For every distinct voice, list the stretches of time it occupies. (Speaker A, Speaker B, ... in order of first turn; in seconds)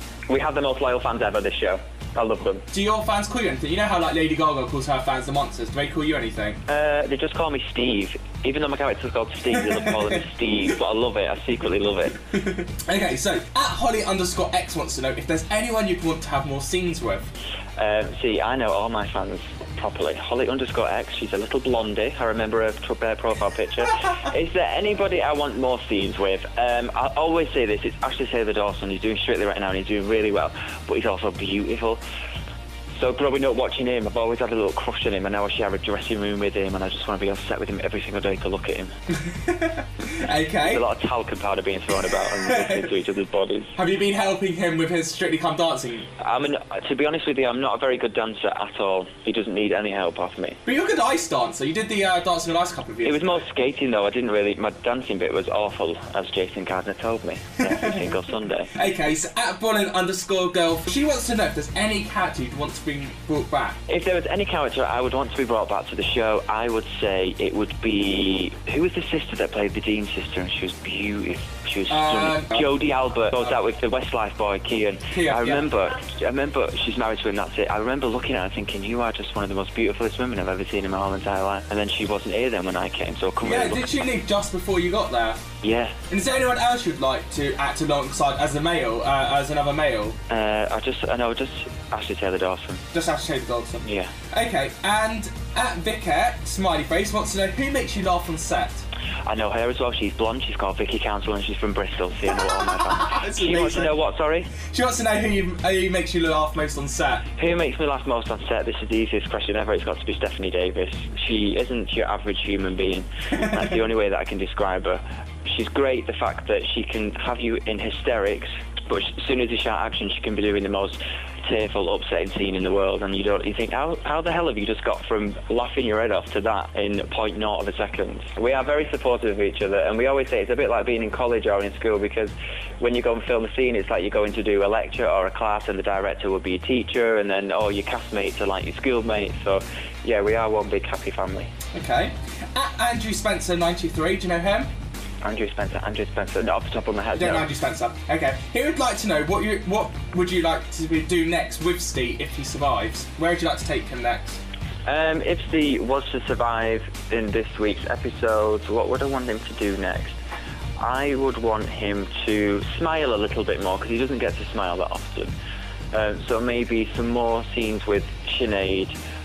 Speaker A: 0.3-2.7, 6.7-12.2, 17.8-32.0, 33.0-38.9, 40.6-43.8, 46.2-50.6, 53.0-58.7, 63.9-83.9, 85.6-86.0, 90.3-92.8, 93.8-94.1, 99.3-104.5, 107.4-141.5, 145.2-147.5, 154.9-160.2, 160.8-165.3, 165.9-168.9
Speaker B: 2.7-6.6, 12.4-17.3, 39.3-40.9, 42.4-42.9, 43.8-46.1, 50.7-53.4, 57.6-58.1, 58.7-63.8, 71.9-72.7, 75.1-75.7, 83.4-85.4, 86.1-90.2, 92.9-98.8, 102.5-103.9, 104.7-107.2, 113.3-113.6, 141.7-144.7, 147.2-154.4